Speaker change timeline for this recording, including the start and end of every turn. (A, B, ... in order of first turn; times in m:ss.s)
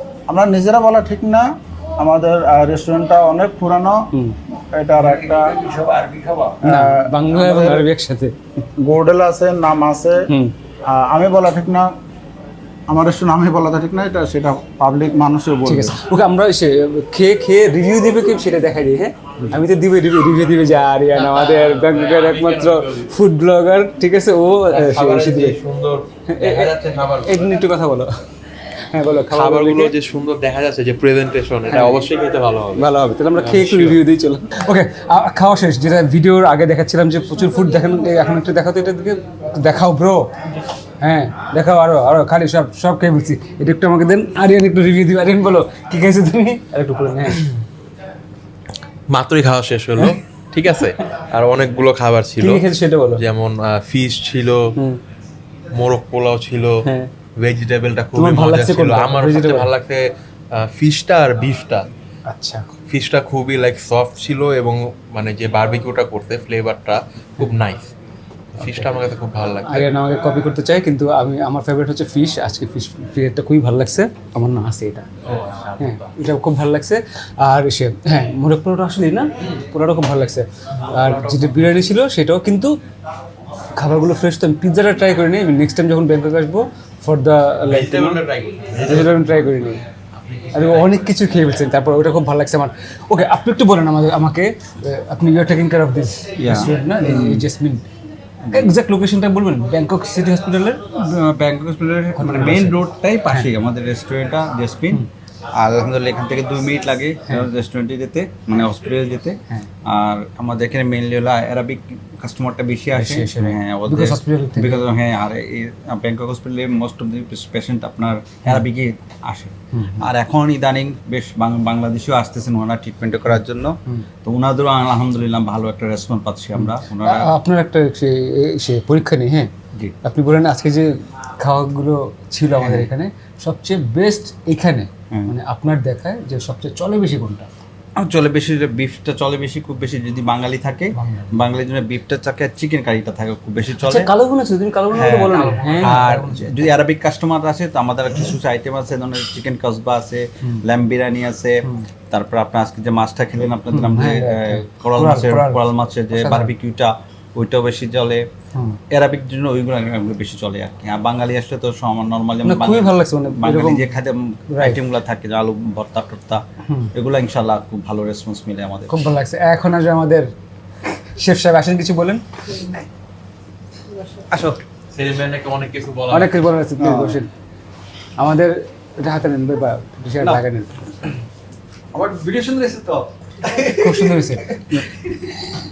0:00.3-0:01.5 A
0:02.0-0:04.0 A
0:04.8-0:05.6 A
0:05.3-0:08.3 B
0:06.6-0:07.8 A
0:08.8-0:10.3 A
0:10.9-0:11.9 A
0:12.9-0:16.0 A
0:15.7-0:25.6 B
0:21.4-0:23.0 C
0:24.7-0:27.4 C
0:26.3-0:28.1 B
0:28.9-0:29.9 B
0:29.3-0:34.0 C
0:31.7-0:32.1 B
0:32.8-0:40.3 B
0:41.0-0:47.5 B
0:49.1-0:54.8 C
0:52.4-0:53.2 B
0:55.7-0:56.8 C
0:56.8-0:57.1 B
0:57.4-1:01.9 C
0:58.2-0:59.7 B
1:02.3-1:02.7 B
1:02.9-1:07.9 C
1:08.5-1:09.9 C
1:08.6-1:08.9 B
1:09.7-1:15.1 B
1:15.3-1:15.8 C
1:15.8-1:22.8 B
1:21.2-1:21.5 C
1:23.8-1:28.2 B
1:27.7-1:29.2 C
1:28.8-1:29.8 B
1:30.4-1:30.9 C
1:30.5-1:37.8 B
1:36.4-1:37.5 D
1:38.4-1:38.8 D
1:38.5-1:40.8 B
1:40.9-1:45.0 D
1:42.2-1:43.5 B
1:45.6-2:07.3 D
1:52.9-1:54.9 B
1:59.7-2:00.1 B
2:06.6-2:09.5 B
2:10.0-2:17.5 B
2:12.6-2:12.9 D
2:18.0-2:24.1 D
2:21.0-2:21.4 B
2:23.8-2:26.6 B
2:24.9-2:38.3 D
2:33.7-2:36.5 B
2:38.5-2:38.8 B
2:38.9-2:46.4 D
2:42.4-2:43.9 B
2:44.5-2:44.8 B
2:46.7-2:46.9 B
2:46.9-2:48.9 D
2:48.9-2:50.3 B
2:51.2-2:52.7 B
2:54.9-2:56.3 C
2:56.1-2:57.3 B
2:56.8-2:57.2 A
2:58.2-3:00.8 B
3:02.0-3:03.8 C
3:03.8-3:04.6 B